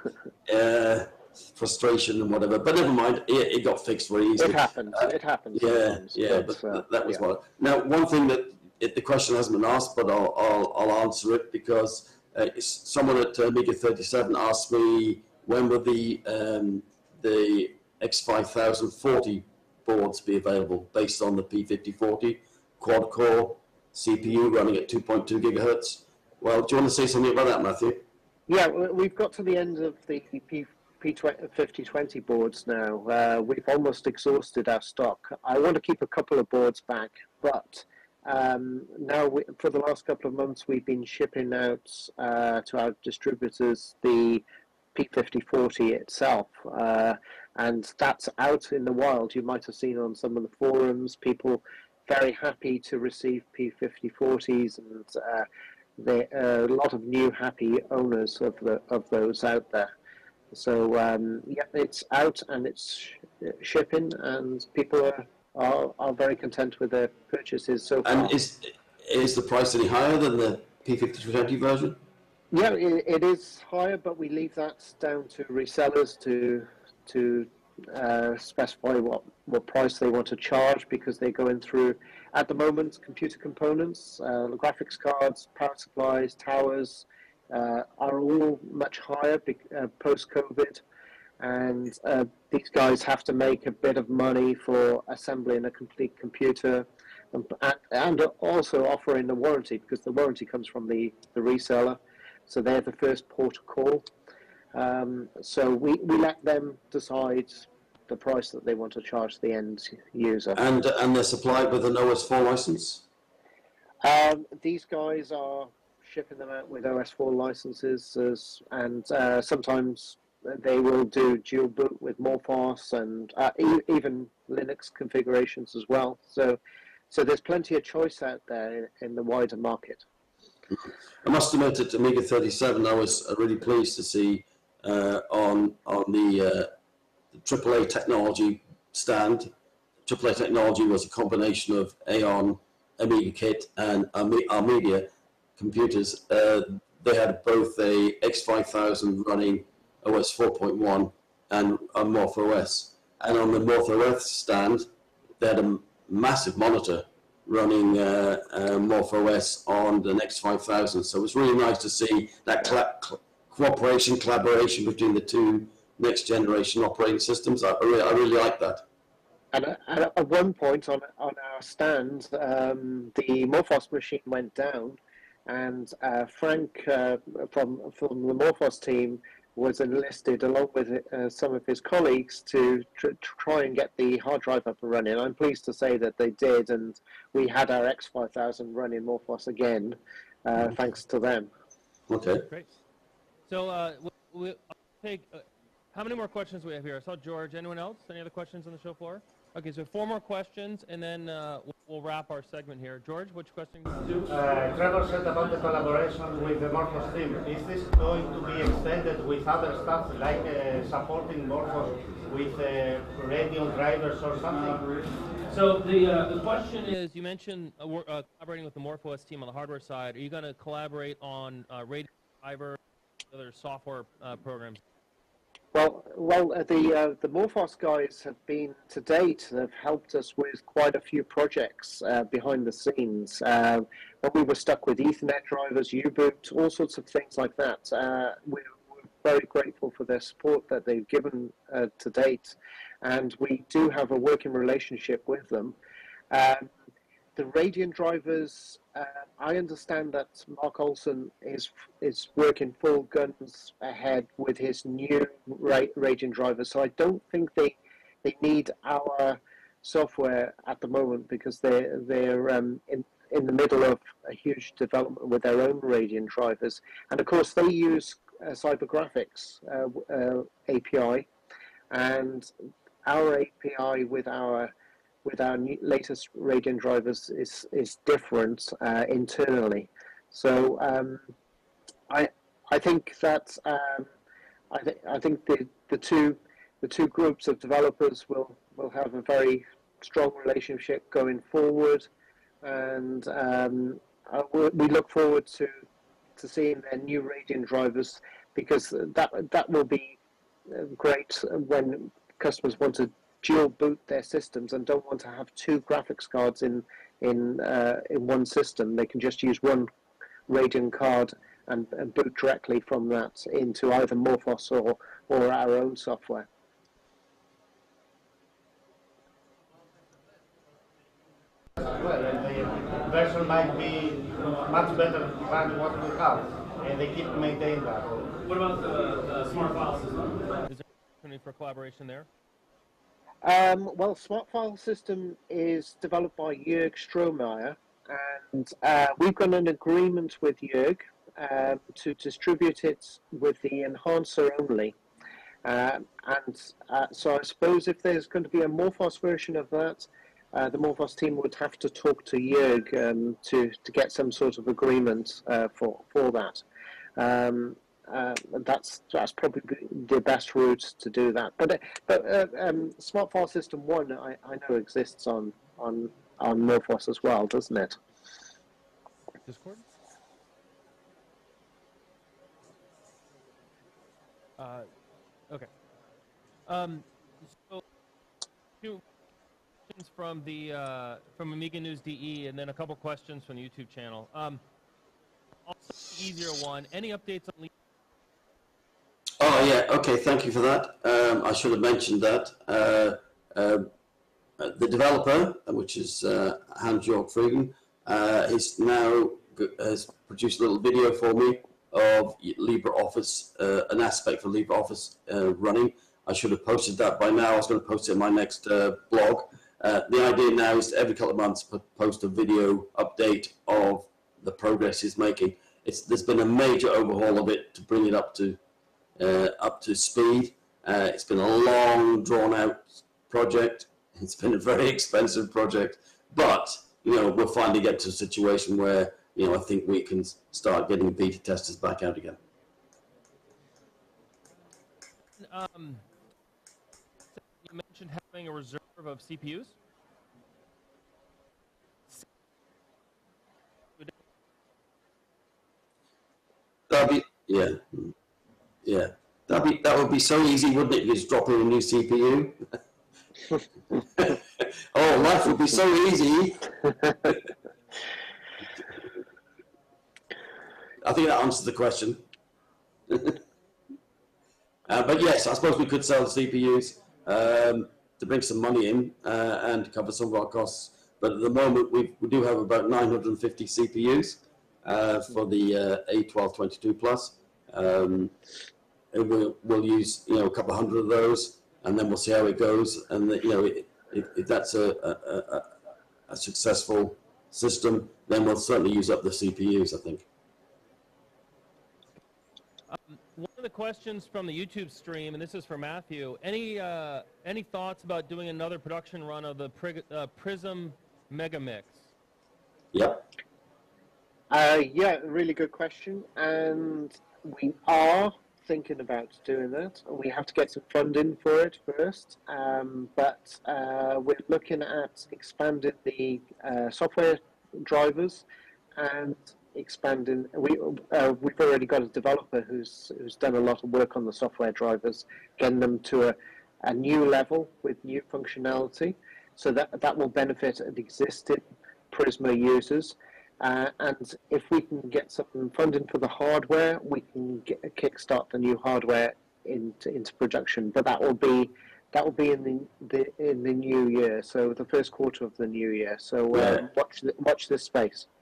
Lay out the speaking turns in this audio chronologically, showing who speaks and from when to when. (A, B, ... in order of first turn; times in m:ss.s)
0:00.4-0:28.0 A
0:04.4-0:07.2 B
0:28.5-0:59.9 B
1:00.5-1:08.3 B
1:08.0-1:12.0 A
1:12.5-1:30.8 B
1:31.4-1:44.1 B
1:44.7-1:50.6 B
1:50.5-1:53.0 A
1:54.0-2:06.6 B
2:07.1-2:10.0 B
2:10.7-2:16.7 A
2:17.3-2:19.5 A
2:20.0-2:34.9 A
2:35.4-2:48.8 A
2:49.5-3:11.5 B
3:12.1-3:12.5 A
3:13.5-3:24.2 C
3:24.3-3:34.8 D
3:35.5-3:42.8 C
3:43.3-3:44.8 C
3:45.7-4:05.8 B
4:06.3-4:06.7 B
4:07.4-4:31.3 B
4:31.9-4:32.5 B
4:33.0-4:34.7 B
4:35.2-4:41.3 B
4:42.1-4:44.1 B
4:44.7-4:52.1 B
4:52.6-4:55.7 B
4:56.4-5:09.9 B
5:10.5-5:16.5 B
5:21.8-5:28.1 D
5:28.4-5:32.3 C
5:33.4-5:45.0 B
5:45.6-5:56.6 B
5:57.2-6:08.0 B
6:09.4-6:09.8 C
6:14.6-6:14.9 C
6:16.7-6:17.8 C
6:19.9-6:24.6 C
6:25.6-6:27.7 C
6:29.4-6:33.9 A
6:34.6-6:58.6 A
6:59.2-7:12.4 A
7:15.4-7:16.0 C
7:17.6-7:19.7 C
7:26.9-7:28.1 A
7:28.8-7:32.8 A
7:34.1-7:36.7 A
7:41.0-7:42.2 A
7:43.1-7:43.4 A
7:44.9-7:58.3 A
7:59.1-8:05.7 A
8:06.3-8:10.2 A
8:12.9-8:22.1 C
8:22.9-8:23.2 A
8:24.5-8:38.4 B
8:39.0-9:08.3 B
9:06.5-9:06.8 A